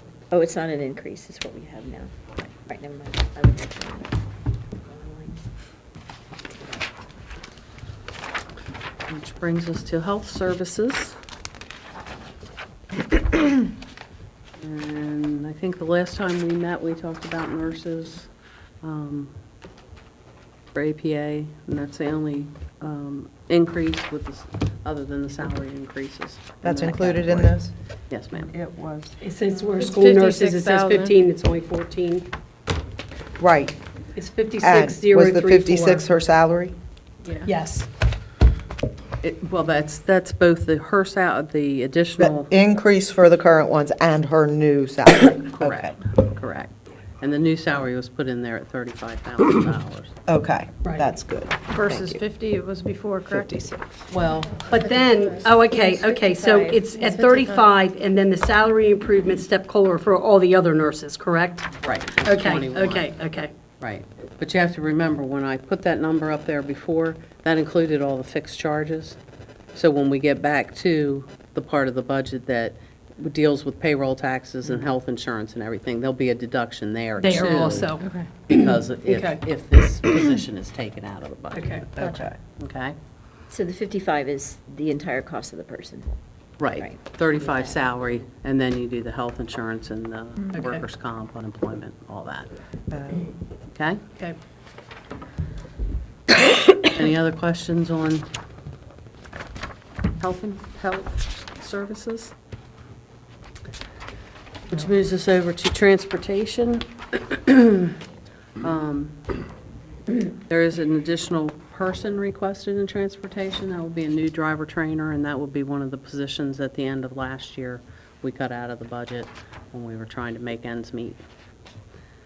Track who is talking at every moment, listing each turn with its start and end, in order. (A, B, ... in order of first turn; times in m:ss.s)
0:00.3-0:02.1 A
0:02.6-0:04.1 A
0:04.8-0:05.4 A
0:06.5-0:06.8 A
0:09.1-0:11.2 B
0:14.6-0:18.3 B
0:18.8-0:19.3 B
0:20.7-0:27.6 B
0:26.6-0:27.7 C
0:28.1-0:28.5 B
0:28.3-0:29.2 C
0:29.2-0:32.3 D
0:29.7-0:31.2 E
0:33.4-0:33.8 C
0:34.1-0:36.1 D
0:34.6-0:36.7 C
0:37.4-0:37.9 D
0:39.2-0:42.5 B
0:42.2-0:46.0 C
0:45.6-0:50.1 B
0:50.3-0:52.2 C
0:50.8-0:51.1 D
0:51.7-0:53.7 E
0:53.3-0:53.7 C
0:54.1-0:54.7 B
0:54.7-1:01.7 D
0:54.7-0:57.7 E
0:55.6-0:56.8 A
1:01.8-1:03.1 B
1:02.2-1:03.5 D
1:03.8-1:09.2 B
1:09.7-1:17.9 B
1:17.2-1:19.4 D
1:18.0-1:18.3 E
1:18.5-1:22.9 B
1:21.5-1:21.9 D
1:22.0-1:22.4 C
1:22.0-1:22.3 A
1:23.5-1:26.2 A
1:26.6-1:32.5 B
1:26.7-1:27.8 A
1:30.5-1:30.8 D
1:32.9-1:33.2 C
1:33.7-1:34.0 B
1:36.8-1:38.3 B
1:40.2-1:42.3 B
1:44.7-1:48.0 B
1:48.6-1:49.3 B
1:50.3-2:01.2 B